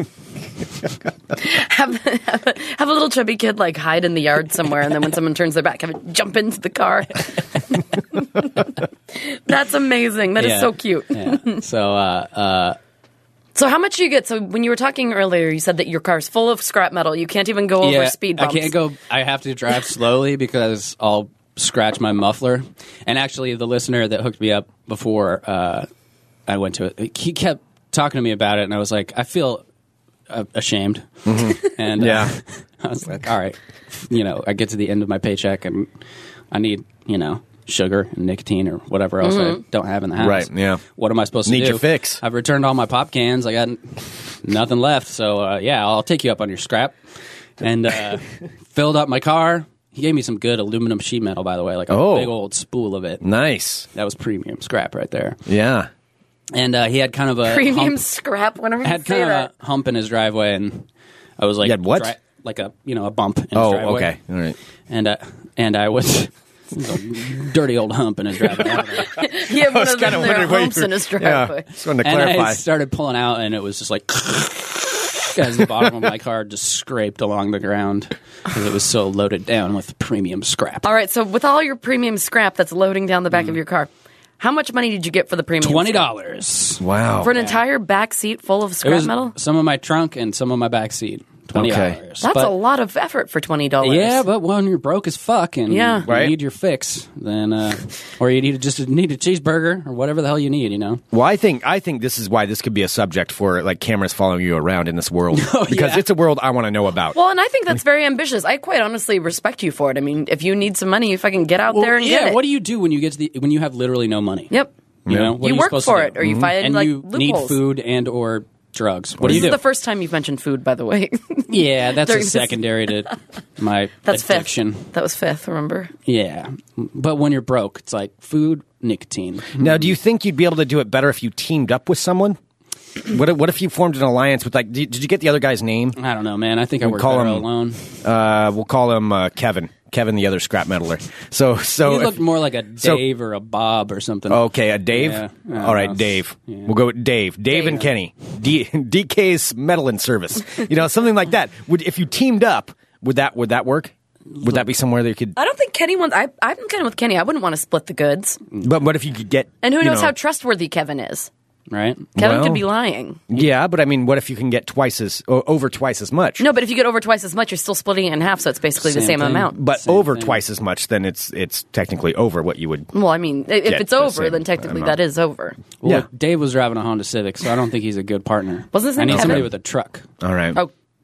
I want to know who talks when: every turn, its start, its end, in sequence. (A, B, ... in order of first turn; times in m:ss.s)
0:01.3-0:11.6 A
0:10.4-0:12.8 B
0:13.5-0:18.7 A
0:17.8-0:25.9 B
0:26.5-0:29.6 B
0:30.3-0:35.9 B
0:31.2-0:32.3 C
0:36.5-0:47.0 B
0:39.2-0:39.6 A
0:40.2-0:40.8 C
0:41.4-0:42.2 C
0:47.6-0:53.2 B
0:51.9-0:52.3 C
0:53.2-0:53.9 C
0:53.9-0:55.4 B
0:55.4-0:55.9 C
0:56.5-0:58.0 B
0:57.5-0:59.5 A
0:58.8-1:00.8 B
1:01.4-1:04.2 B
1:01.6-1:02.1 C
1:03.5-1:04.6 C
1:04.9-1:09.1 B
1:09.0-1:11.6 A
1:09.5-1:12.6 C
1:12.0-1:20.9 B
1:20.8-1:26.0 A
1:25.6-1:27.6 B
1:26.8-1:27.3 C
1:27.2-1:29.3 A
1:28.8-1:32.5 B
1:31.5-1:32.0 C
1:32.2-1:34.2 A
1:33.8-1:41.0 B
1:35.7-1:36.0 A
1:36.0-1:36.3 C
1:41.1-1:47.2 C
1:45.3-1:46.0 B
1:47.1-1:52.4 A
1:51.7-1:54.5 B
1:55.1-1:55.4 C
1:55.1-1:59.6 B
1:55.4-1:57.6 A
1:56.2-1:56.5 C
1:59.2-1:59.6 C
1:59.2-2:02.9 A
2:01.5-2:04.9 B
2:04.0-2:05.9 A
2:06.1-2:09.9 B
2:09.6-2:12.4 C
2:13.0-2:16.0 C
2:15.9-2:17.9 B
2:16.8-2:17.4 C
2:18.0-2:22.2 C
2:21.8-2:26.7 B
2:24.3-2:35.3 C
2:34.3-2:34.6 B
2:35.4-2:38.4 A
2:38.6-2:40.1 C
2:39.6-2:41.3 A
2:41.7-2:42.1 B
2:42.2-2:42.7 C
2:42.2-2:43.2 A
2:43.3-2:46.4 C
2:46.4-2:49.6 A
2:48.8-2:50.4 B
2:49.5-2:52.9 C
2:52.9-2:55.6 A
2:53.6-2:55.0 C
2:55.8-3:00.1 B
2:58.7-2:59.5 A
2:59.1-2:59.5 C
3:00.2-3:00.6 C